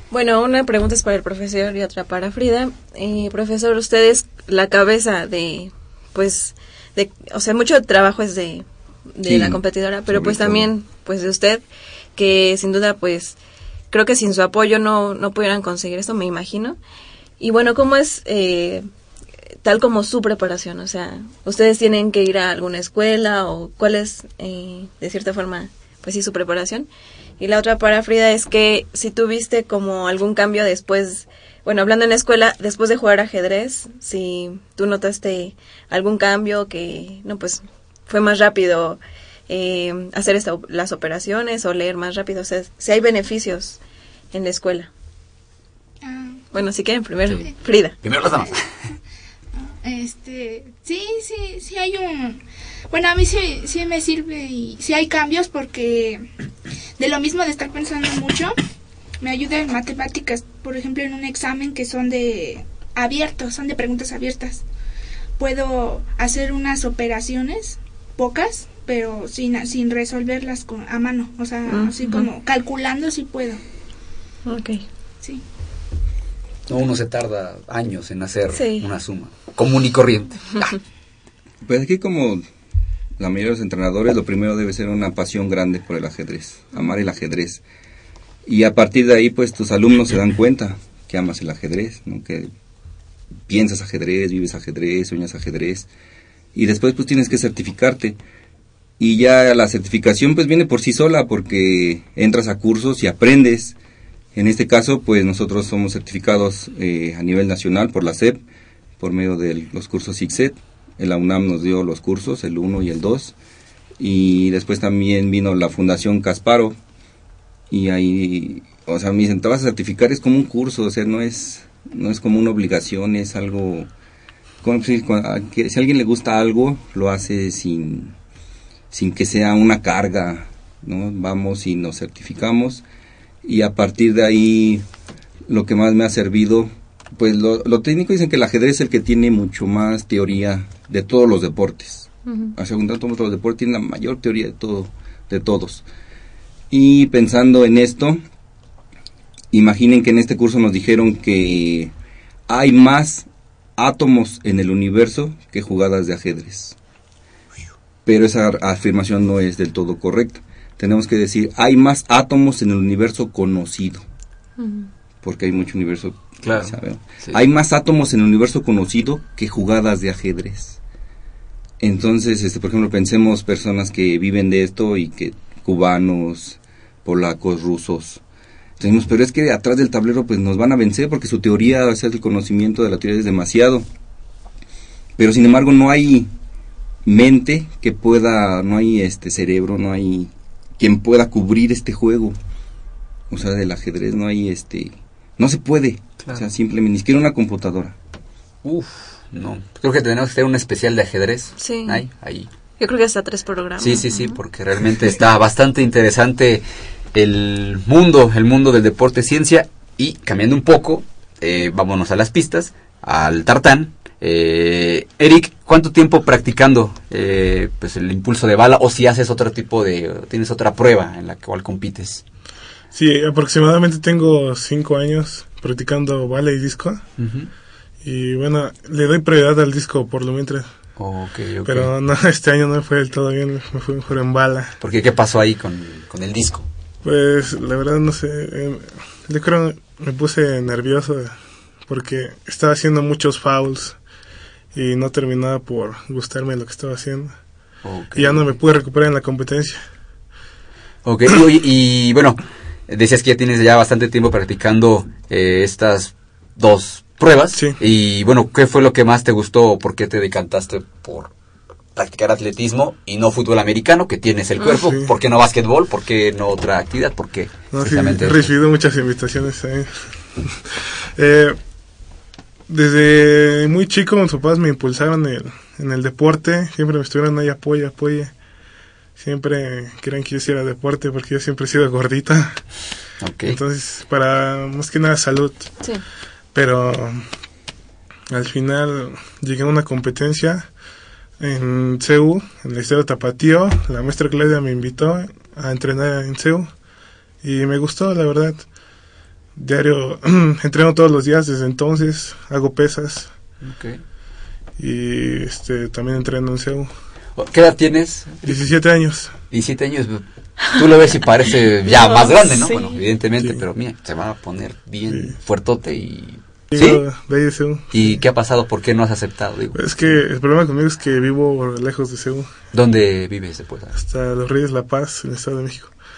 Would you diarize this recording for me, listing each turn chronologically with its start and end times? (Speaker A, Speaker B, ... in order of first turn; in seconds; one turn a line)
Speaker A: 0.1-11.6
Speaker B: 9.3-10.7
Speaker A: 12.2-13.4
Speaker A: 13.9-16.8
Speaker A: 17.4-18.9
Speaker A: 19.6-26.9
Speaker A: 27.4-43.8
Speaker A: 44.3-44.9
Speaker C: 46.0-46.5
Speaker A: 46.5-48.0
Speaker D: 48.0-48.7
Speaker C: 49.6-56.3
Speaker C: 57.0-58.6
Speaker C: 59.2-64.7
Speaker C: 65.4-73.6
Speaker A: 71.7-72.3
Speaker A: 74.5-74.8
Speaker D: 76.7-80.8
Speaker A: 78.5-78.9
Speaker B: 81.6-82.4
Speaker B: 83.2-87.6
Speaker B: 88.5-92.5
Speaker B: 93.5-95.9
Speaker B: 96.5-98.2
Speaker B: 99.0-103.8
Speaker B: 104.3-108.4
Speaker B: 109.0-113.4
Speaker B: 114.0-116.8
Speaker B: 117.7-123.9
Speaker B: 124.6-128.2
Speaker B: 128.9-132.8
Speaker B: 133.4-134.8
Speaker B: 135.5-145.9
Speaker B: 146.7-148.2
Speaker B: 149.5-151.9
Speaker B: 152.5-156.8
Speaker B: 158.1-164.0
Speaker A: 164.6-164.9
Speaker B: 165.2-170.8
Speaker D: 166.4-167.4
Speaker B: 171.8-178.2
Speaker B: 178.8-183.9
Speaker B: 185.2-186.3
Speaker B: 187.1-192.4
Speaker B: 193.3-198.0
Speaker D: 198.6-202.5
Speaker A: 201.6-202.1
Speaker A: 202.8-204.4
Speaker D: 203.8-222.2
Speaker E: 222.9-227.1
Speaker D: 227.2-227.5
Speaker E: 228.0-230.7
Speaker D: 231.0-231.9
Speaker E: 231.7-234.8
Speaker D: 234.8-236.7
Speaker E: 237.0-244.0
Speaker E: 244.7-247.4
Speaker D: 247.8-248.5
Speaker E: 248.1-249.8
Speaker D: 251.0-261.3
Speaker E: 257.5-257.8
Speaker D: 261.9-268.5
Speaker E: 264.7-265.1
Speaker E: 267.7-271.6
Speaker E: 272.7-278.3
Speaker E: 279.2-282.7
Speaker D: 283.2-283.6
Speaker E: 283.4-285.8
Speaker E: 286.5-287.3
Speaker E: 288.3-290.7
Speaker E: 291.4-296.7
Speaker E: 297.4-298.7
Speaker E: 299.6-303.3
Speaker D: 303.6-304.0
Speaker E: 304.8-306.9
Speaker D: 307.4-308.7
Speaker E: 308.4-309.3
Speaker D: 309.5-317.1
Speaker A: 311.9-313.0
Speaker E: 315.1-315.4
Speaker E: 316.7-318.2
Speaker D: 317.9-320.2
Speaker E: 319.7-322.5
Speaker D: 322.7-324.0
Speaker E: 323.9-325.9